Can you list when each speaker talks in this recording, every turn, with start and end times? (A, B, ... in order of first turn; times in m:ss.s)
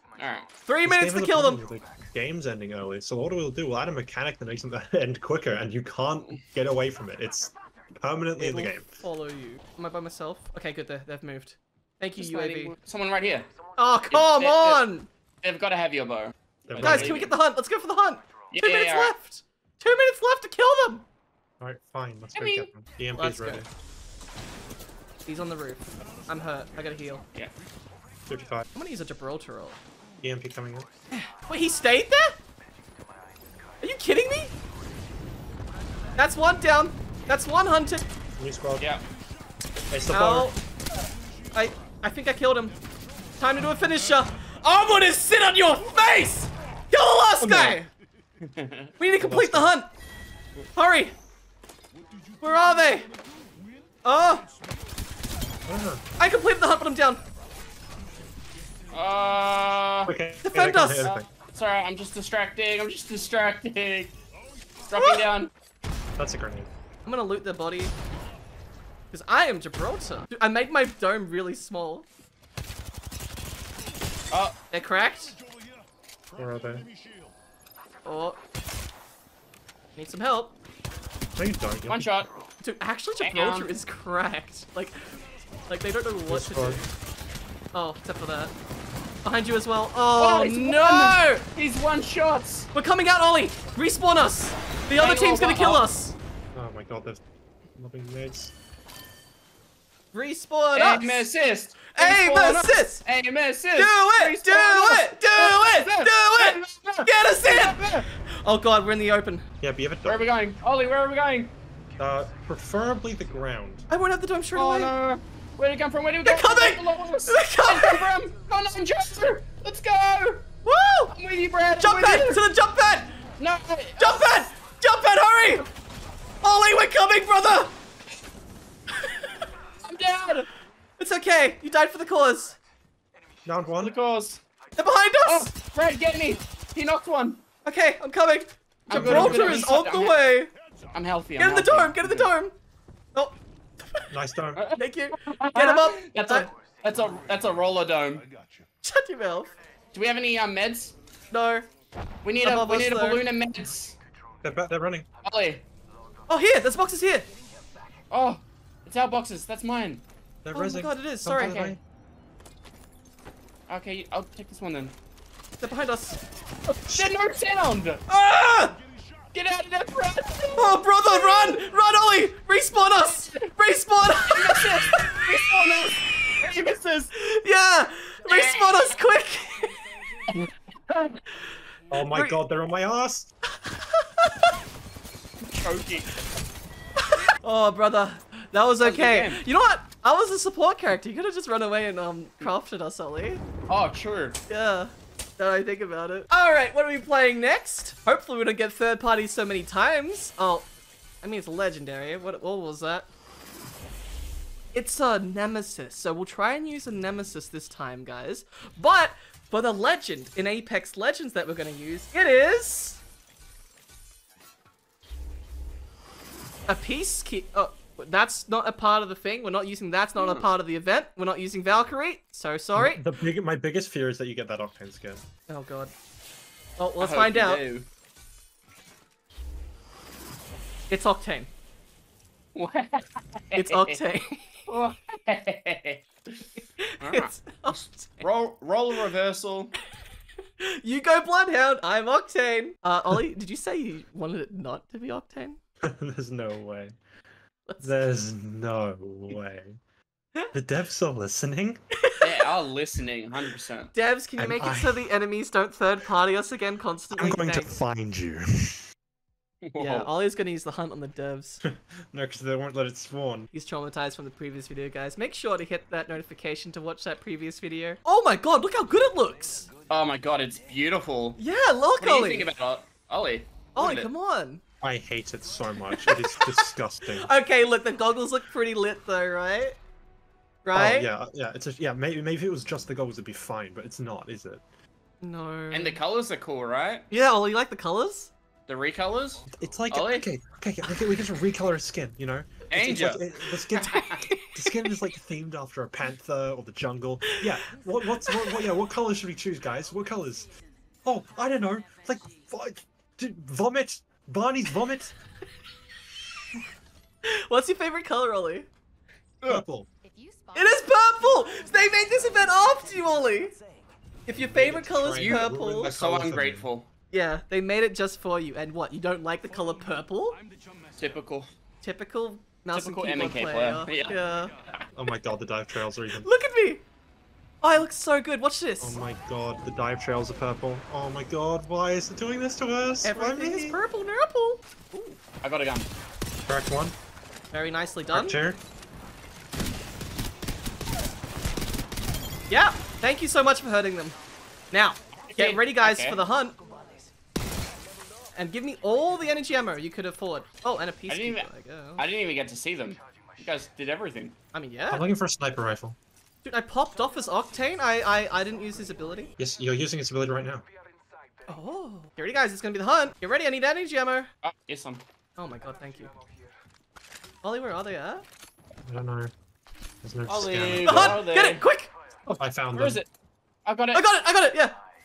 0:00.2-0:00.5 A
0:00.6-0:01.6 B
0:00.8-0:08.8 C
0:08.4-0:12.7 B
0:12.2-0:13.5 A
0:13.8-0:15.1 B
0:14.1-0:14.8 A
0:15.4-0:17.3 A
0:16.7-0:17.3 C
0:16.8-0:21.0 B
0:18.5-0:19.1 A
0:21.6-0:23.7 C
0:22.3-0:22.7 A
0:23.2-0:23.6 B
0:25.3-0:27.2 B
0:28.3-0:28.7 C
0:28.7-0:29.8 B
0:30.2-0:30.9 C
0:31.1-0:32.4 B
0:33.8-0:34.5 B
0:36.2-0:38.1 B
0:38.4-0:38.9 C
0:38.8-0:39.0 A
0:39.9-0:40.5 C
0:40.1-0:40.6 B
0:41.5-0:42.8 B
0:43.4-0:47.9 B
0:47.4-0:47.8 C
0:48.4-0:48.9 A
0:49.0-0:49.9 B
0:49.2-0:49.7 C
0:50.7-0:51.1 B
0:52.4-0:53.1 B
0:54.0-0:54.4 B
0:55.6-0:56.0 C
0:56.2-0:57.2 B
0:58.9-1:00.1 A
1:00.0-1:01.2 C
1:00.4-1:01.1 B
1:00.9-1:04.2 A
1:04.9-1:05.5 A
1:04.9-1:05.2 B
1:06.2-1:06.7 C
1:07.0-1:07.9 B
1:09.1-1:12.0 B
1:14.7-1:15.4 B
1:16.3-1:16.9 C
1:18.0-1:18.4 B
1:20.0-1:20.6 B
1:21.4-1:22.3 C
1:21.9-1:22.3 A
1:22.6-1:26.8 B
1:23.2-1:23.7 A
1:26.3-1:26.8 C
1:27.7-1:28.5 B
1:29.2-1:31.4 B
1:30.2-1:32.7 A
1:32.7-1:36.1 B
1:35.0-1:35.8 A
1:36.5-1:37.2 C
1:37.8-1:38.5 C
1:40.1-1:41.3 B
1:40.8-1:48.0 A
1:41.9-1:43.0 B
1:43.7-1:49.4 B
1:49.6-1:50.2 C
1:50.0-1:51.5 A
1:52.0-1:53.9 C
1:53.9-1:54.9 B
1:54.6-2:00.4 A
1:56.2-1:58.1 B
2:00.6-2:01.1 B
2:01.1-2:02.4 A
2:01.8-2:03.3 B
2:03.4-2:04.4 A
2:04.0-2:05.7 B
2:06.4-2:07.7 B
2:09.0-2:09.5 B
2:09.8-2:10.5 A
2:11.0-2:12.6 B
2:13.4-2:13.9 C
2:13.8-2:14.4 A
2:14.8-2:15.5 B
2:15.2-2:17.4 A
2:17.6-2:20.5 B
2:18.9-2:19.6 C
2:18.9-2:20.2 A
2:20.9-2:22.3 A
2:21.4-2:22.5 B
2:23.1-2:24.1 B
2:24.1-2:24.6 C
2:24.6-2:28.3 A
2:24.7-2:26.5 B
2:28.8-2:29.5 B
2:29.9-2:30.9 A
2:31.3-2:31.7 B
2:32.2-2:34.0 A
2:32.4-2:33.2 B
2:34.4-2:35.0 C
2:35.2-2:35.6 A
2:36.3-2:37.3 B
2:38.1-2:40.0 A
2:40.4-2:41.8 C
2:40.5-2:41.7 B
2:41.4-2:41.7 A
2:43.7-2:44.9 A
2:45.6-2:46.2 B
2:46.7-2:48.0 A
2:46.9-2:47.1 C
2:48.1-2:48.8 B
2:49.3-2:51.6 A
2:50.5-2:56.2 B
2:53.2-2:53.5 A
2:54.3-2:57.1 A
2:57.1-2:59.8 B
2:58.3-2:59.0 A
3:00.3-3:01.2 A
3:01.9-3:03.3 C
3:02.1-3:02.4 B
3:03.5-3:04.6 B
3:05.4-3:06.1 A
3:07.0-3:13.4 B
3:08.8-3:09.4 A
3:13.7-3:14.4 A
3:14.5-3:20.7 B
3:21.2-3:23.1 B
3:24.7-3:33.0 B
3:36.7-3:43.0 B
3:40.2-3:40.4 A
3:42.7-3:45.2 C
3:45.5-3:45.9 B
3:46.8-3:47.6 B
3:47.0-3:47.9 A
3:50.9-3:51.5 B
3:52.5-3:54.0 A
3:53.5-3:54.6 B
3:54.7-3:56.4 A
3:56.8-3:57.8 B
3:57.0-3:59.7 A
4:00.6-4:05.6 B
4:05.8-4:06.9 C
4:07.7-4:08.0 B
4:07.8-4:09.8 C
4:10.5-4:11.8 C
4:12.0-4:12.4 B
4:12.2-4:13.9 A
4:13.9-4:17.7 B
4:14.4-4:15.0 C
4:17.1-4:18.8 C
4:19.6-4:20.1 A
4:19.8-4:21.6 B
4:21.6-4:23.5 C
4:23.5-4:29.7 B
4:29.9-4:31.4 A
4:31.4-4:32.5 B
4:32.0-4:34.1 A
4:33.7-4:34.6 B
4:34.8-4:37.3 C
4:35.9-4:39.8 B
4:40.6-4:41.1 B
4:40.7-4:44.6 C
4:45.2-4:46.0 B
4:45.7-4:47.1 A
4:47.1-4:48.3 B
4:48.7-4:50.3 A
4:49.5-5:00.5 C
4:52.7-4:53.2 A
4:53.7-4:54.9 B
4:53.9-4:54.2 A
4:57.2-4:57.6 B
4:58.2-4:58.6 B
5:01.0-5:05.1 C
5:07.2-5:08.7 B
5:09.5-5:09.9 C
5:10.5-5:13.6 B
5:14.3-5:15.9 B
5:14.3-5:16.7 C
5:15.1-5:16.9 A
5:17.1-5:20.4 B
5:21.0-5:21.5 A
5:21.8-5:24.6 B
5:22.7-5:24.2 A
5:24.9-5:26.3 C
5:26.1-5:26.8 B
5:27.6-5:29.0 B
5:28.8-5:33.8 C
5:33.0-5:35.2 B
5:35.4-5:35.9 A
5:36.4-5:36.9 C
5:37.5-5:38.4 B
5:38.1-5:38.6 C
5:42.5-5:44.2 B
5:44.7-5:46.6 B
5:45.3-5:46.2 A
5:48.4-5:52.0 B
5:51.1-5:54.4 A
5:54.5-5:55.0 B
5:54.9-5:56.0 C
5:56.4-5:59.3 B
5:59.4-6:00.6 C
6:01.5-6:04.3 B
6:04.4-6:05.0 A
6:05.4-6:06.1 B
6:07.4-6:08.2 B
6:08.8-6:09.3 C
6:10.0-6:11.2 C
6:10.3-6:11.6 A
6:10.8-6:11.9 B
6:12.3-6:13.0 C
6:12.7-6:13.1 A
6:13.6-6:14.0 A
6:13.9-6:14.8 B